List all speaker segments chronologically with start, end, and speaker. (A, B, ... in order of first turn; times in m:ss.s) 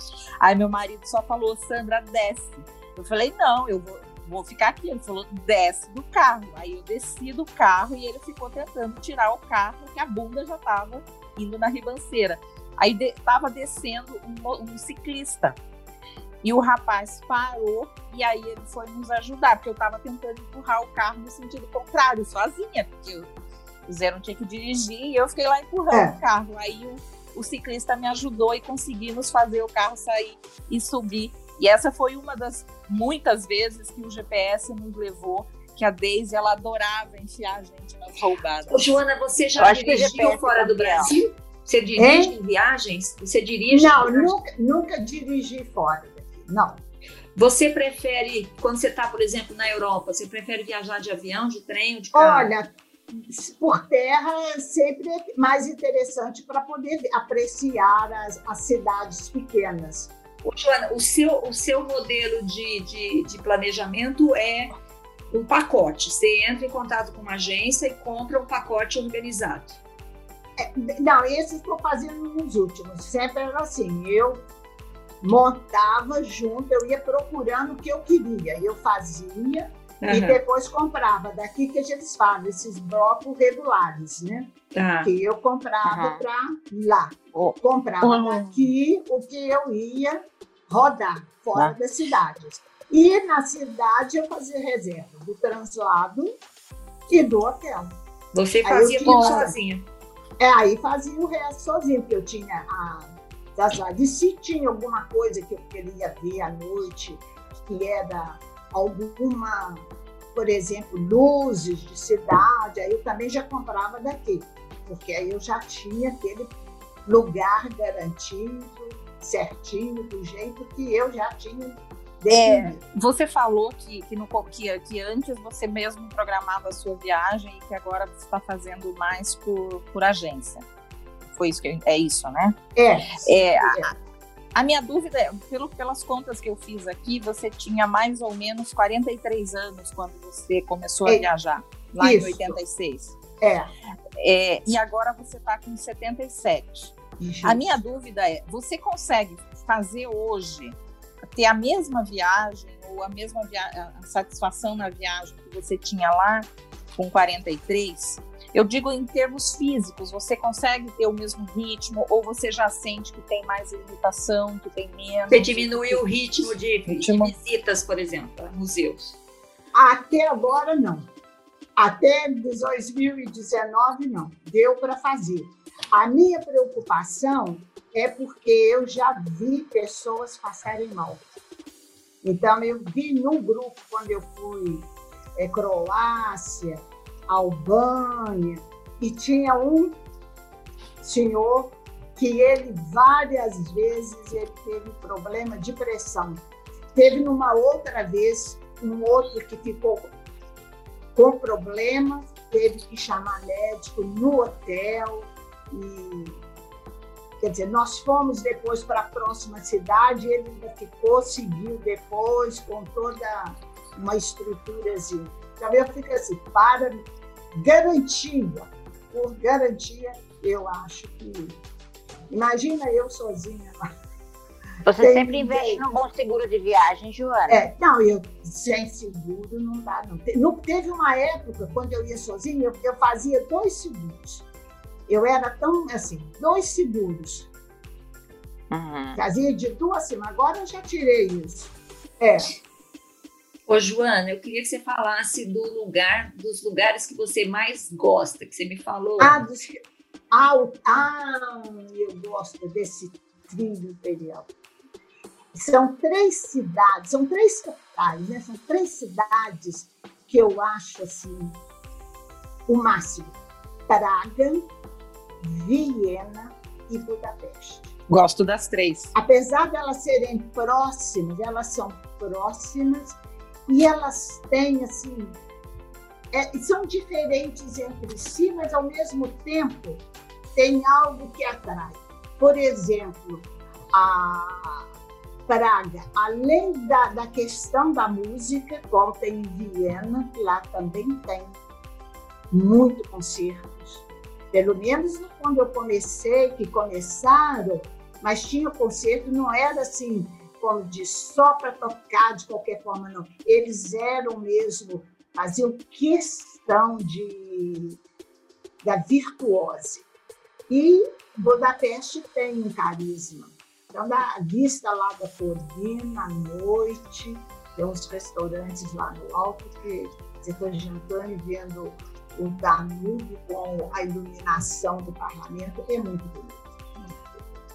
0:00.4-0:15.6 A
0:16.4-0:23.3 A
0:23.9-0:38.9 A
0:25.9-0:26.2 B
0:38.7-0:44.3 C
0:39.6-0:41.1 D
0:42.0-0:42.3 B
0:43.7-0:46.8 B
0:47.4-0:52.5 C
0:52.1-1:00.1 B
1:00.4-1:04.7 C
1:05.3-1:09.8 C
1:10.6-1:14.4 B
1:15.2-1:36.4 B
1:20.0-1:20.4 C
1:24.7-1:25.1 C
1:25.8-1:26.2 D
1:28.1-1:28.4 A
1:37.1-1:37.9 B
1:38.3-1:39.8 C
1:38.6-1:39.5 B
1:39.1-1:39.4 A
1:40.4-1:56.5 B
1:57.0-2:02.8 B
2:02.3-2:10.6 A
2:11.3-2:12.6 A
2:12.8-2:13.9 B
2:13.2-2:13.9 A
2:14.5-2:23.2 A
2:22.0-2:22.6 B
2:23.4-2:23.7 B
2:24.2-2:30.8 A
2:27.2-2:27.6 B
2:31.3-2:46.0 A
2:45.3-2:49.2 C
2:46.9-2:47.3 A
2:49.7-2:51.1 B
2:51.8-3:01.3 B
3:02.2-3:10.0 B
3:11.0-3:16.4 B
3:16.9-3:20.1 B
3:21.1-3:26.4 B
3:27.4-3:41.6 B
3:42.3-3:43.9 B
3:44.8-3:47.6 D
3:44.9-3:45.8 B
3:47.5-3:54.4 B
3:55.1-3:57.5 B
3:58.7-3:59.2 D
3:59.1-4:02.5 B
4:03.7-4:09.4 C
4:09.2-4:09.8 B
4:10.3-4:14.5 B
4:15.5-4:21.6 B
4:22.7-4:23.4 B
4:23.9-4:24.7 B
4:25.4-4:27.9 B
4:28.1-4:29.1 A
4:29.1-4:35.4 B
4:36.3-4:40.0 B
4:40.5-4:44.8 B
4:45.5-4:51.6 B
4:52.5-5:08.0 B
5:08.8-5:10.0 B
5:10.7-5:27.2 B